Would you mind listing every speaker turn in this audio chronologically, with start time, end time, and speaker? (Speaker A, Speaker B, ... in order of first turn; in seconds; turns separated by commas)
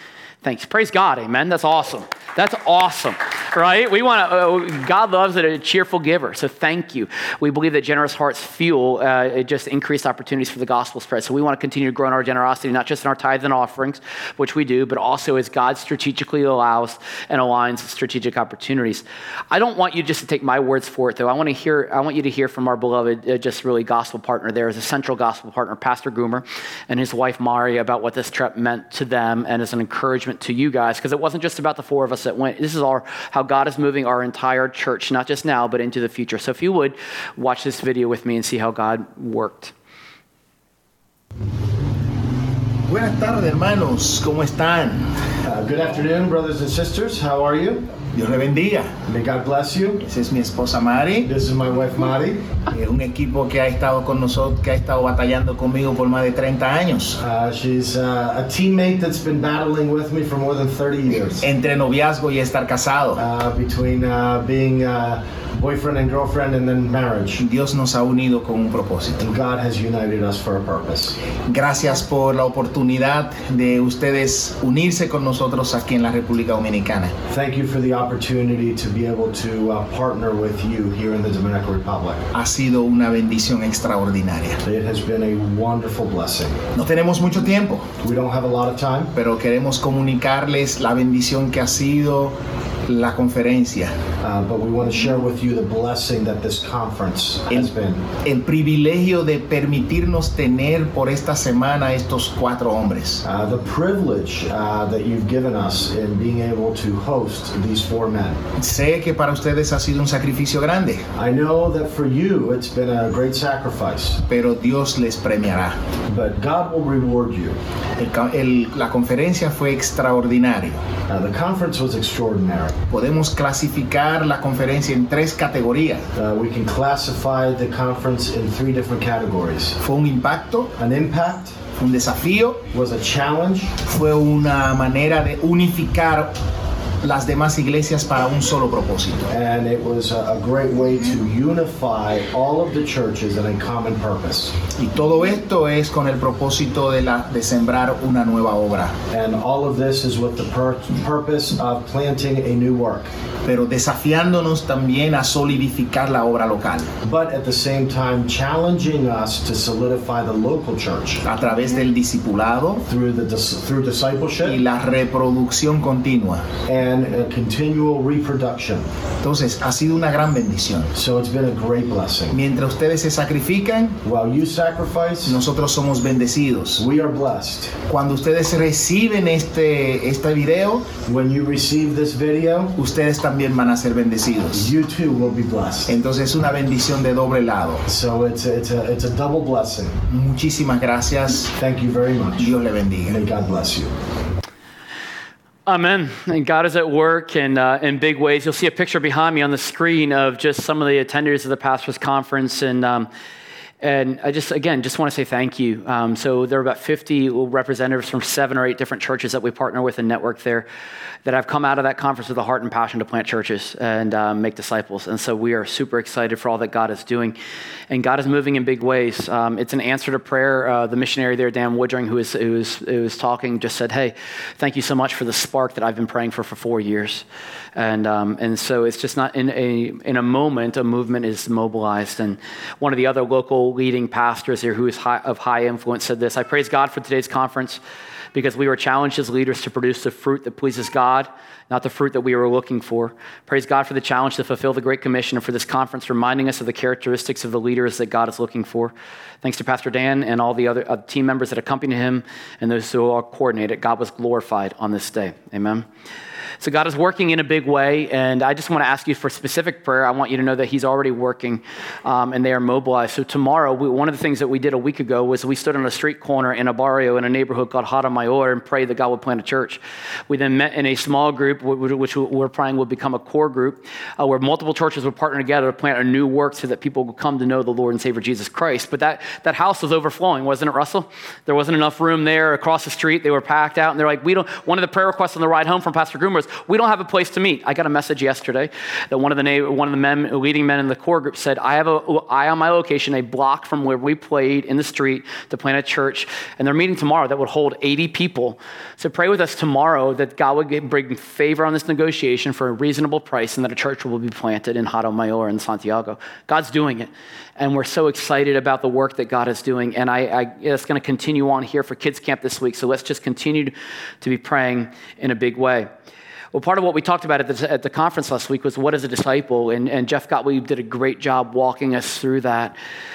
Speaker A: 0.4-39.7, Speaker B: 42.9-45.1, Speaker C: 45.4-47.9, Speaker B: 48.1-48.9, Speaker C: 49.0-50.0, Speaker B: 50.0-51.3, Speaker C: 51.2-52.4, Speaker B: 52.7-57.2, Speaker C: 57.2-61.4, Speaker B: 61.4-63.2, Speaker C: 63.2-67.4, Speaker B: 67.4-69.2, Speaker C: 69.2-71.2, Speaker B: 71.5-77.1, Speaker C: 77.3-82.3, Speaker B: 82.3-84.6, Speaker C: 84.6-86.7, Speaker B: 86.7-87.9, Speaker C: 88.0-89.1, Speaker B: 89.1-93.9, Speaker C: 94.2-98.0, Speaker B: 98.2-103.2, Speaker C: 103.2-108.4, Speaker B: 108.5-111.0, Speaker C: 111.1-114.2, Speaker B: 114.2-115.8, Speaker C: 116.1-117.6, Speaker B: 118.0-120.9, Speaker C: 121.1-122.8, Speaker B: 122.9-126.0, Speaker C: 126.1-129.8, Speaker B: 129.8-130.7, Speaker C: 130.8-131.7, Speaker B: 131.8-132.6, Speaker C: 132.7-133.8, Speaker B: 133.8-136.4, Speaker B: 137.0-139.3, Speaker C: 139.3-144.6, Speaker B: 144.8-149.0, Speaker C: 149.1-153.1, Speaker B: 153.4-156.9, Speaker C: 157.0-161.2, Speaker B: 161.2-162.8, Speaker C: 162.9-164.6, Speaker B: 164.4-166.5, Speaker C: 166.6-168.8, Speaker B: 169.2-170.9, Speaker C: 170.9-172.4, Speaker B: 172.3-174.0, Speaker C: 174.0-175.3, Speaker B: 175.2-176.8, Speaker C: 176.8-177.8, Speaker B: 177.9-180.9, Speaker C: 181.0-182.7, Speaker B: 182.8-184.7, Speaker C: 184.5-185.9, Speaker B: 185.9-187.8, Speaker C: 187.9-190.0, Speaker B: 190.1-191.5, Speaker C: 191.5-192.5, Speaker B: 192.4-193.2, Speaker C: 193.1-193.9, Speaker A: 195.7-203.1, Speaker A: 203.8-210.7, Speaker A: 211.2-217.4, Speaker A: 217.9-237.8, Speaker A: 238.3-255.9, Speaker A: 256.6-315.9, Speaker A: 316.5-322.8